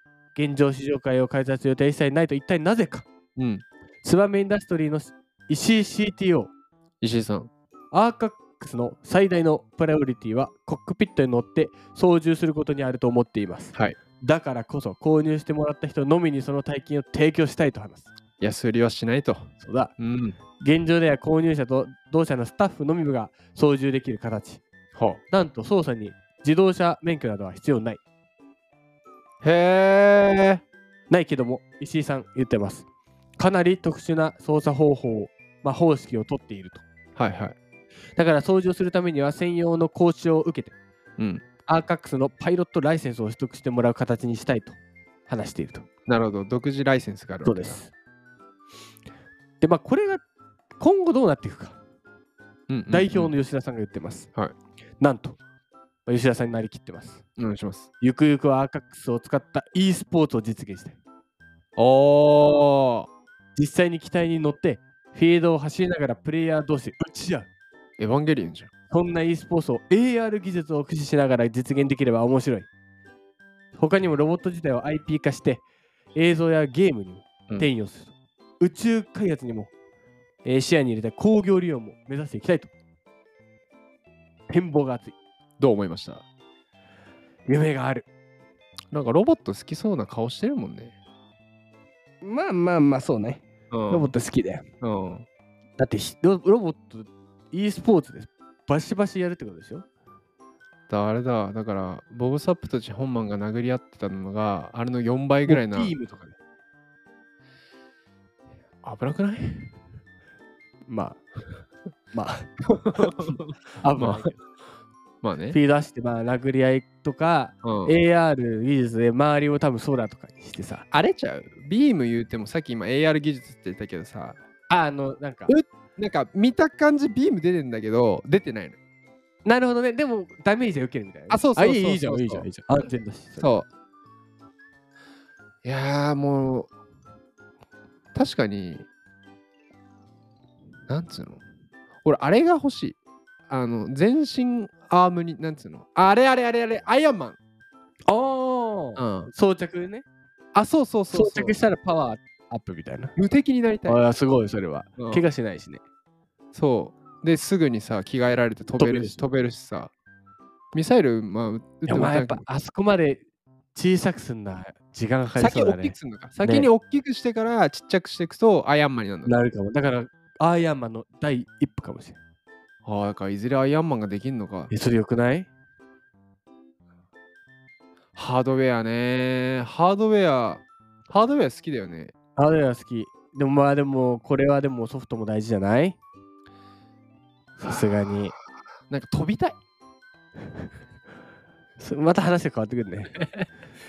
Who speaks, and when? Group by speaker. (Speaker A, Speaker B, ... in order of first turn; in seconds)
Speaker A: 0.3-3.1, 4.0-6.5, 7.9-18.1, 19.6-19.9, 20.6-24.6, 25.3-28.0, 31.1-32.9, 33.4-36.8, 38.1-40.8, 41.6-45.9, 47.4-47.9, 49.6-50.2, 50.8-51.8, 52.9-54.3, 55.0-55.4, 56.0-57.2, 58.0-61.0, 63.5-67.5, 68.9-72.7, 73.7-75.6, 76.1-79.7, 80.4-82.7, 84.5-85.2, 87.5-88.1, 92.2-94.6, 95.8-99.8, 105.5-106.4, 110.9-111.2, 112.1-114.4, 115.5-120.8, 124.7-125.5, 129.4-133.5, 148.1-150.1, 151.1-153.1, 153.8-155.8, 158.8-159.2, 161.8-166.7, 169.2-172.2, 174.7-175.5, 182.3-186.0, 187.6-188.3, 191.8-193.2
Speaker B: 3.4-3.6, 7.0-7.5, 18.4-20.4, 24.9-25.2, 29.4-30.6, 37.2-37.5, 41.2-41.4, 46.1-47.8, 52.7-53.4, 57.4-57.9, 61.8-63.1, 68.0-68.7, 85.6-86.2, 88.9-91.0, 93.7-94.1, 94.8-95.3, 100.9-105.9, 108.8-109.7, 112.8-114.3, 115.2-115.6, 117.6-117.9, 120.9-124.4, 125.5-128.8, 131.3-132.5, 133.4-133.7, 135.6-136.7, 138.1-138.9, 140.9-141.4, 142.0-143.0, 143.5-147.4, 149.0-149.3, 150.5-151.6, 153.2-154.0, 155.0-155.2, 156.5-159.9, 160.7-162.4, 165.3-169.4, 172.8-174.7, 178.1-182.1, 188.9-189.6, 193.1-193.5